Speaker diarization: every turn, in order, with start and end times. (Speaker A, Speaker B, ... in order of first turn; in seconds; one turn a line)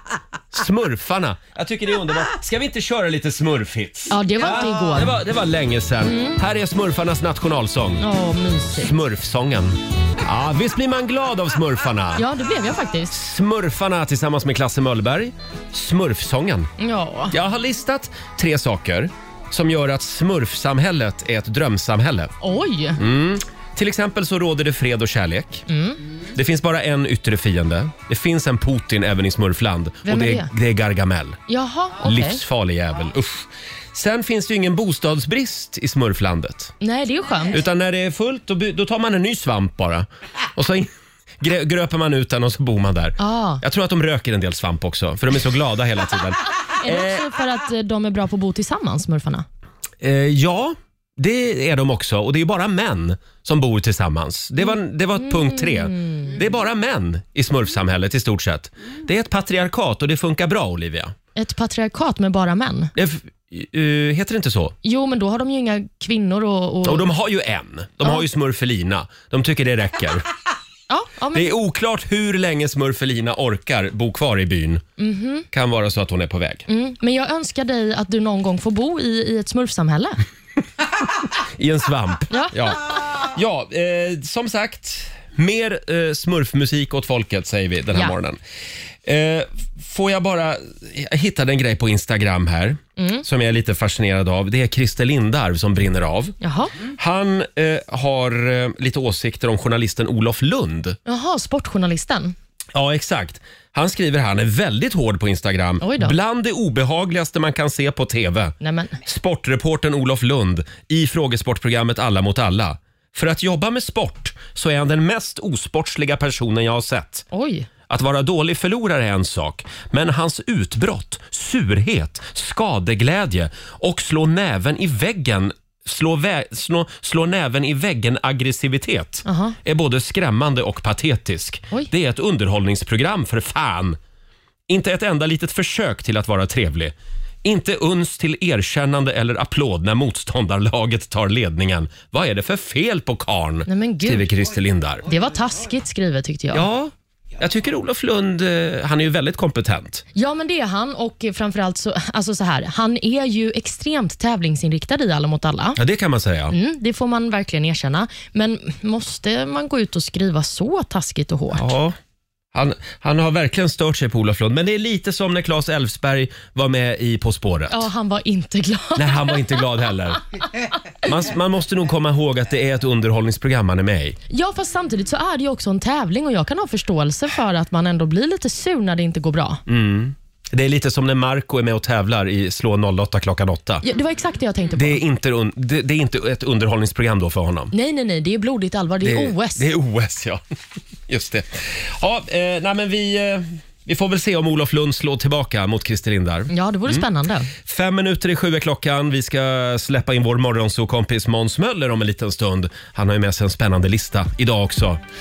Speaker A: 0.5-8.0
Speaker B: 4.1-5.2
Speaker B: 6.0-6.4
Speaker B: 8.0-8.9
Speaker A: 8.7-12.3
Speaker B: 12.2-13.2
Speaker A: 13.1-16.7
Speaker B: 16.8-17.4
Speaker A: 17.3-22.3
Speaker B: 22.4-23.0
Speaker A: 23.0-25.7
Speaker B: 25.7-26.0
Speaker A: 26.3-31.4
Speaker B: 30.1-30.5
Speaker B: 31.5-32.4
Speaker A: 32.0-36.7
Speaker B: 36.8-37.6
Speaker A: 37.5-47.2
Speaker B: 43.2-43.6
Speaker B: 46.8-49.5
Speaker A: 50.0-61.1
Speaker B: 54.7-56.4
Speaker B: 61.4-62.9
Speaker A: 63.0-64.8
Speaker B: 64.8-67.1
Speaker A: 66.8-70.3
Speaker B: 70.9-71.5
Speaker A: 71.3-74.8
Speaker B: 75.0-75.5
Speaker A: 75.5-76.6
Speaker B: 76.7-80.2
Speaker A: 81.4-88.4
Speaker A: 89.0-101.0
Speaker B: 93.0-93.2
Speaker B: 96.4-96.7
Speaker B: 101.1-102.4
Speaker A: 102.7-108.5
Speaker B: 105.8-106.2
Speaker B: 108.6-109.0
Speaker A: 109.0-117.3
Speaker B: 117.3-117.7
Speaker A: 117.9-134.0
Speaker B: 129.2-129.6
Speaker A: 134.7-145.1
Speaker B: 143.7-144.3
Speaker B: 145.1-146.7
Speaker A: 146.5-150.0
Speaker B: 150.2-155.8
Speaker A: 155.8-156.6
Speaker B: 156.5-161.7
Speaker A: 161.6-162.0
Speaker A: 162.5-167.9
Speaker B: 167.7-169.6
Speaker A: 169.0-170.2
Speaker A: 171.0-174.2
Speaker B: 174.3-179.6
Speaker A: 179.7-183.8
Speaker B: 183.8-185.0
Speaker A: 184.7-187.7
Speaker B: 187.7-189.7
Speaker A: 189.0-190.4
Speaker A: 191.1-197.1
Speaker B: 196.5-197.5
Speaker A: 197.6-205.0